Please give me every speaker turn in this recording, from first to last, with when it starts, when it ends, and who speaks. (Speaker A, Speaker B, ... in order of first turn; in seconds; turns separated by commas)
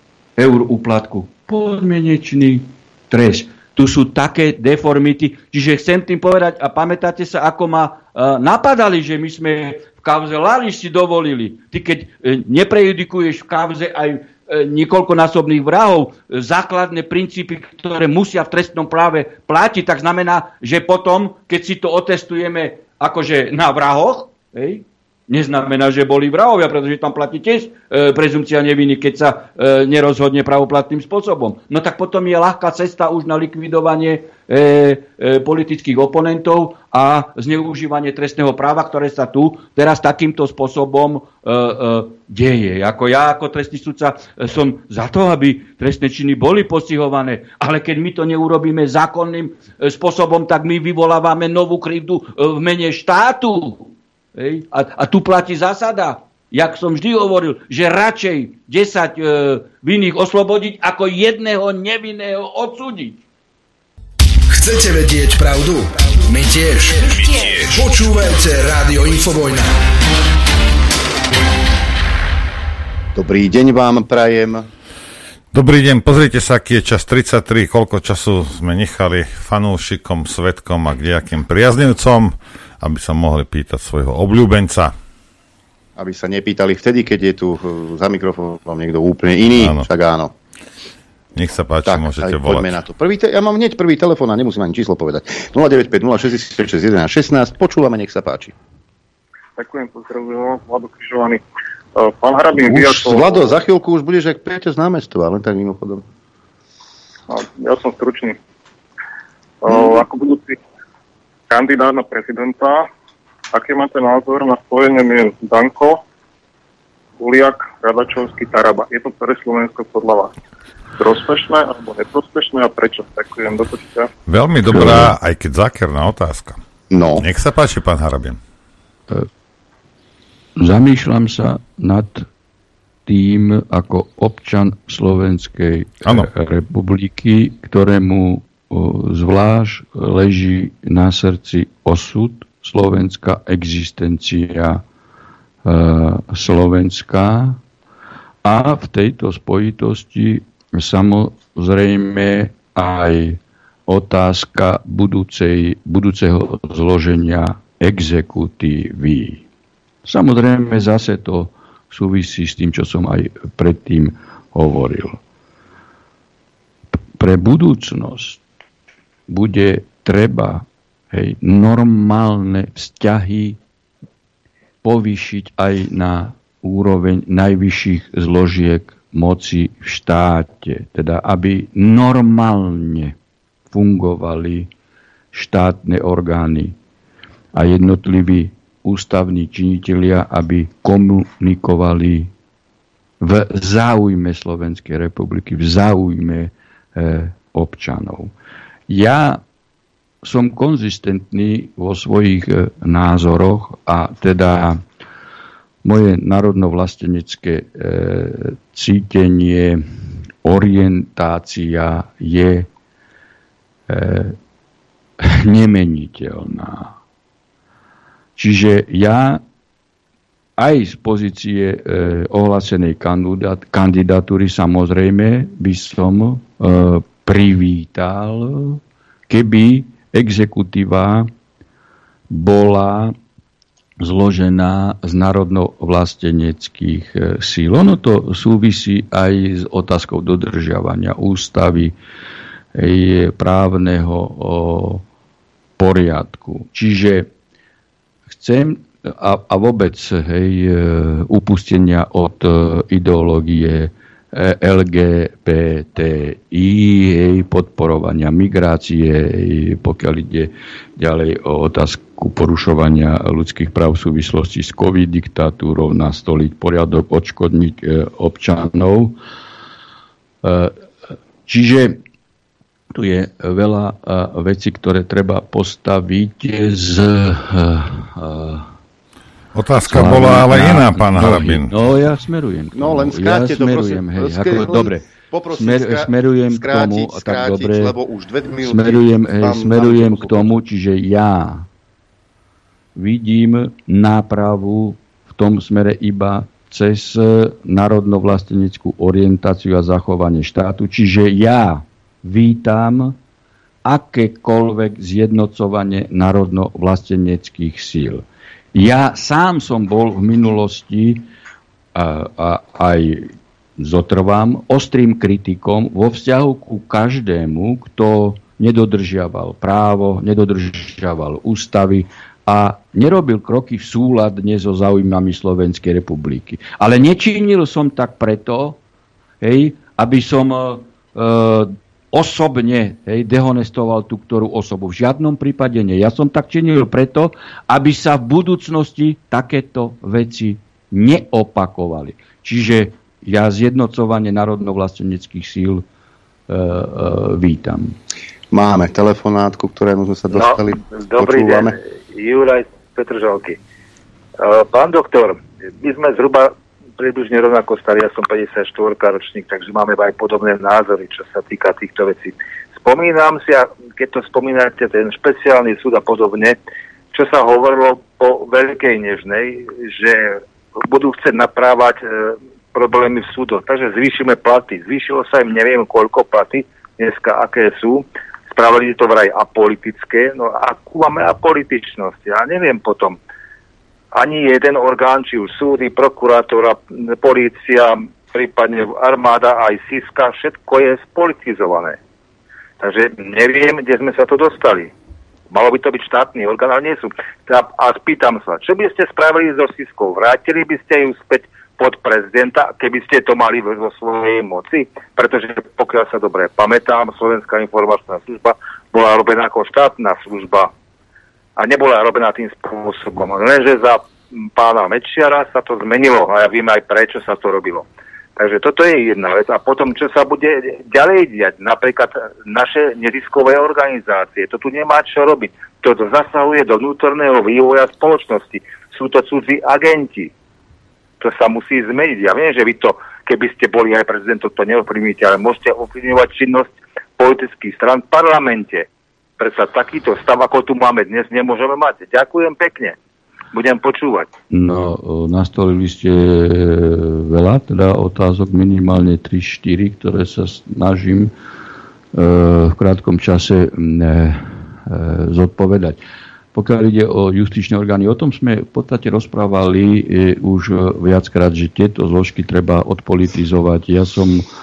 Speaker A: 0.4-63.2, Speaker B: 64.5-69.7, Speaker C: 73.1-74.7, Speaker D: 75.5-84.9, Speaker C: 86.0-90.3, Speaker D: 89.5-89.9, Speaker D: 91.3-92.8, Speaker C: 91.8-98.5, Speaker E: 99.6-101.4, Speaker E: 102.0-103.5, Speaker C: 102.6-106.0, Speaker E: 107.3-108.4, Speaker E: 109.6-110.6, Speaker E: 111.5-112.9, Speaker E: 113.5-116.0, Speaker E: 117.2-120.3, Speaker E: 121.0-124.1, Speaker D: 124.3-126.6, Speaker A: 124.7-125.1, Speaker C: 126.9-127.2, Speaker D: 127.2-128.4, Speaker A: 130.6-132.2, Speaker A: 133.1-144.8, Speaker A: 145.7-147.6, Speaker A: 148.4-159.4, Speaker A: 160.1-165.2, Speaker A: 167.2-168.4, Speaker A: 169.3-173.6, Speaker A: 174.8-183.1, Speaker A: 183.7-184.7, Speaker A: 185.3-186.7, Speaker A: 187.5-192.3, Speaker A: 193.2-198.3, Speaker A: 198.9-199.4, Speaker A: 200.2-204.8, Speaker A: 205.8-209.8, Speaker A: 210.4-212.7, Speaker A: 213.9-214.3, Speaker A: 215.2-216.9, Speaker A: 218.3-219.4, Speaker A: 220.6-231.3, Speaker A: 232.3-233.1, Speaker A: 234.0-241.9, Speaker A: 242.8-245.0, Speaker A: 245.8-247.3, Speaker A: 248.3-269.1, Speaker A: 270.4-270.7, Speaker A: 271.4-272.0, Speaker A: 272.9-278.7, Speaker D: 279.5-281.7, Speaker A: 279.8-285.0, Speaker C: 282.7-290.5, Speaker A: 285.6-287.9, Speaker A: 288.6-291.6, Speaker A: 292.9-303.1, Speaker A: 303.9-311.2, Speaker A: 311.9-328.8, Speaker A: 329.4-345.8, Speaker A: 346.5-347.9, Speaker C: 348.5-351.8, Speaker F: 350.3-353.6, Speaker F: 354.4-366.6, Speaker F: 367.1-383.2, Speaker F: 384.1-392.0, Speaker F: 392.8-394.9, Speaker F: 395.5-410.7, Speaker F: 411.6-414.0, Speaker F: 414.5-417.8, Speaker F: 418.4-430.3, Speaker F: 431.2-438.9, Speaker F: 439.4-442.9, Speaker F: 443.5-444.3, Speaker A: 444.5-451.3, Speaker A: 452.1-456.0, Speaker A: 456.5-464.4